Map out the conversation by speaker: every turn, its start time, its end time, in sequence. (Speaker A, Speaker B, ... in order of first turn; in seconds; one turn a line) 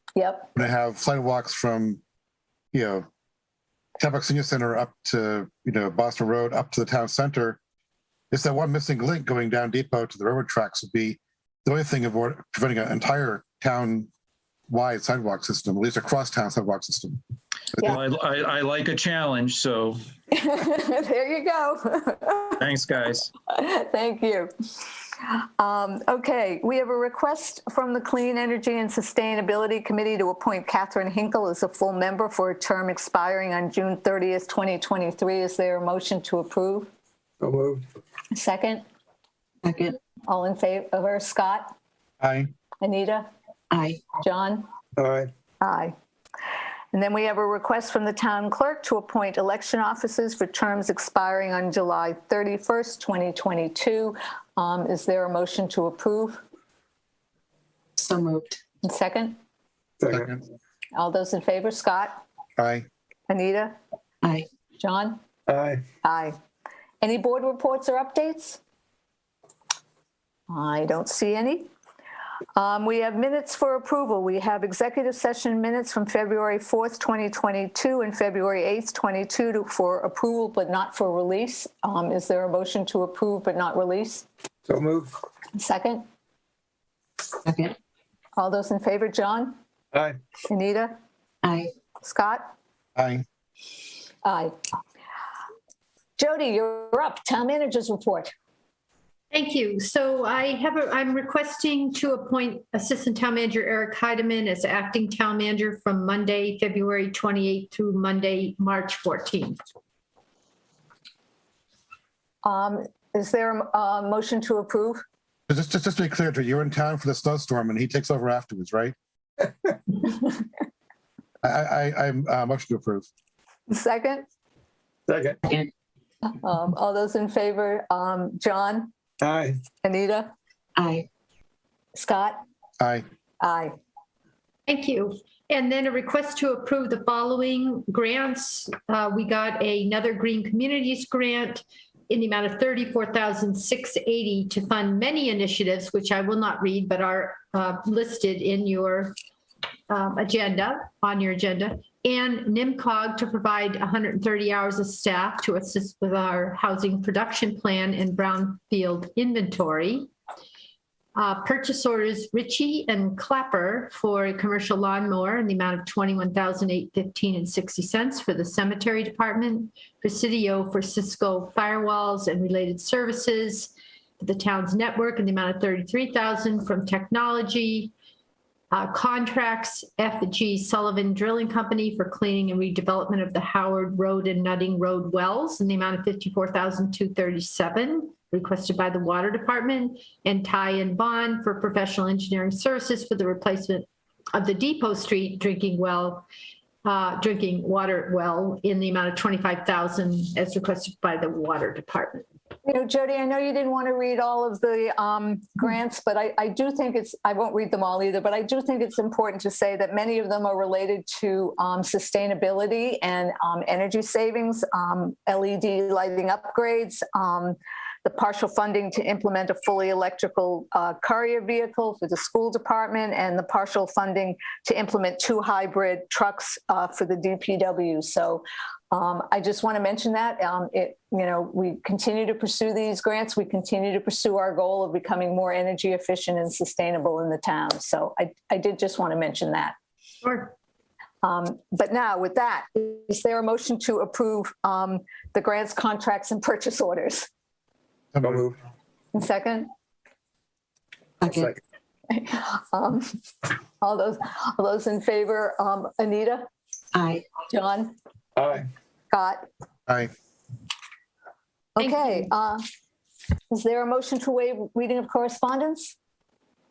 Speaker A: 0.2-0.5
Speaker B: 0.6-2.0
Speaker B: 2.7-3.1
Speaker B: 4.0-7.6
Speaker B: 8.3-14.1
Speaker B: 14.7-17.2
Speaker C: 17.8-20.0
Speaker A: 20.3-22.6
Speaker C: 22.6-23.3
Speaker A: 23.5-24.5
Speaker A: 25.2-36.9
Speaker D: 37.4-37.8
Speaker A: 38.3-38.8
Speaker E: 39.6-40.0
Speaker A: 40.3-41.7
Speaker B: 42.2-42.5
Speaker A: 42.8-43.3
Speaker E: 43.7-44.1
Speaker A: 44.2-44.7
Speaker D: 45.0-45.3
Speaker A: 45.6-45.9
Speaker A: 46.9-56.4
Speaker E: 58.0-58.6
Speaker A: 58.8-59.4
Speaker D: 60.0-60.3
Speaker B: 60.1-60.4
Speaker A: 61.0-62.2
Speaker B: 62.6-62.9
Speaker A: 63.3-63.8
Speaker E: 64.2-64.5
Speaker A: 64.8-65.2
Speaker D: 65.5-65.8
Speaker A: 66.0-66.4
Speaker A: 67.0-68.6
Speaker A: 70.5-71.7
Speaker A: 72.5-84.3
Speaker D: 84.7-85.1
Speaker A: 85.6-86.0
Speaker E: 87.4-87.8
Speaker A: 88.4-89.6
Speaker A: 90.5-91.0
Speaker E: 91.4-91.7
Speaker A: 92.0-92.5
Speaker B: 93.0-93.2
Speaker A: 94.2-94.5
Speaker A: 96.2-98.3
Speaker F: 99.3-109.6
Speaker A: 112.4-115.0
Speaker B: 115.5-119.0
Speaker B: 121.4-123.1
Speaker A: 123.7-124.2
Speaker D: 125.1-125.4
Speaker A: 126.3-128.9
Speaker D: 129.2-129.6
Speaker A: 129.8-130.3
Speaker E: 130.8-131.1
Speaker A: 131.9-132.4
Speaker B: 132.8-133.1
Speaker A: 133.4-133.8
Speaker F: 134.7-149.2
Speaker F: 149.9-160.1
Speaker F: 161.2-177.9
Speaker F: 178.7-196.3
Speaker F: 196.8-202.3
Speaker A: 202.7-239.8
Speaker F: 240.2-240.5
Speaker A: 241.2-247.3
Speaker B: 248.2-248.5
Speaker D: 248.2-248.5
Speaker A: 249.1-249.7
Speaker E: 251.2-251.6
Speaker A: 252.1-253.2
Speaker A: 253.8-256.5
Speaker E: 256.9-257.2
Speaker A: 257.5-258.0
Speaker D: 258.4-258.7
Speaker A: 259.1-259.5
Speaker A: 261.8-262.6
Speaker A: 263.5-266.0